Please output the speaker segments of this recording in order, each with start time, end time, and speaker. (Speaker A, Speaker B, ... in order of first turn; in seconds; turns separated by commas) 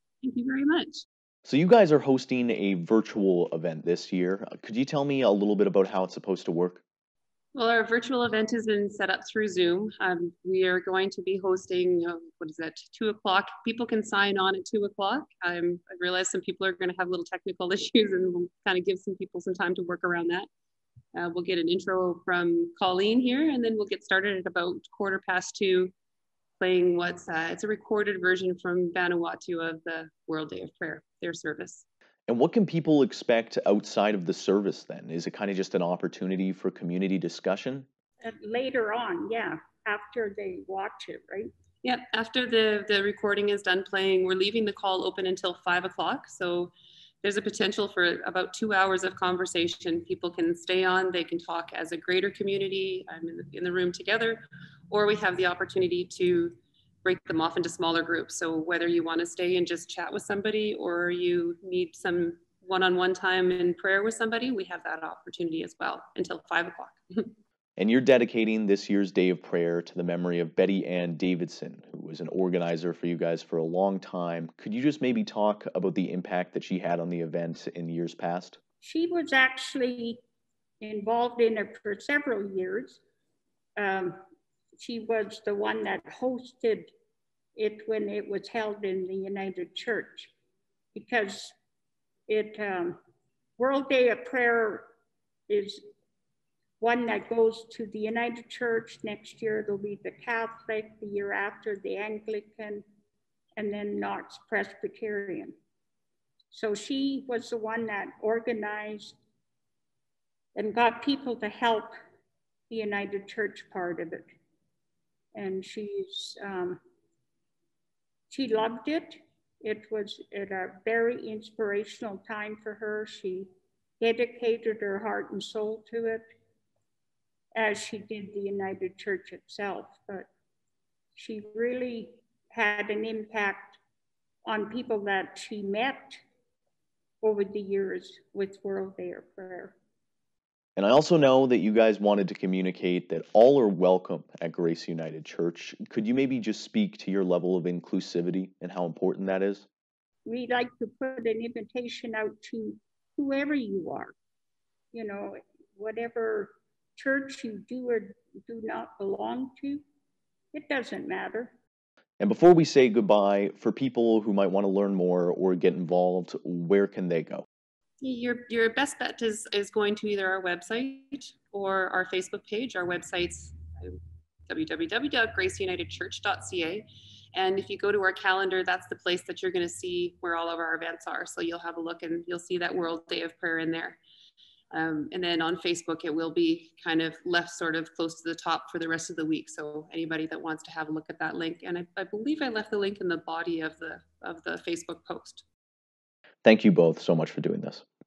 Speaker A: 0.2-1.0, Speaker B: 1.4-6.8, Speaker A: 7.5-20.5, Speaker A: 21.1-25.9, Speaker A: 26.6-31.8, Speaker B: 32.3-37.9, Speaker C: 38.2-41.5, Speaker A: 41.8-67.3, Speaker B: 67.8-78.6, Speaker C: 78.8-80.2, Speaker C: 80.8-83.0, Speaker C: 83.8-84.2, Speaker C: 84.8-86.9, Speaker C: 87.5-90.3, Speaker C: 90.9-91.5, Speaker C: 92.3-93.0, Speaker C: 93.6-94.9, Speaker C: 95.5-95.8, Speaker C: 96.8-102.8, Speaker C: 103.5-105.5, Speaker C: 106.5-109.2, Speaker C: 110.5-111.9, Speaker C: 112.7-114.3, Speaker C: 115.3-116.8, Speaker C: 118.3-126.2, Speaker C: 127.5-130.3, Speaker C: 131.1-133.8, Speaker C: 134.4-136.2, Speaker C: 137.2-139.8, Speaker B: 140.8-149.7, Speaker C: 150.2-154.1, Speaker C: 154.9-159.8, Speaker C: 160.5-161.5, Speaker B: 162.2-167.4, Speaker A: 168.0-184.0, Speaker A: 184.7-195.4, Speaker B: 196.4-197.8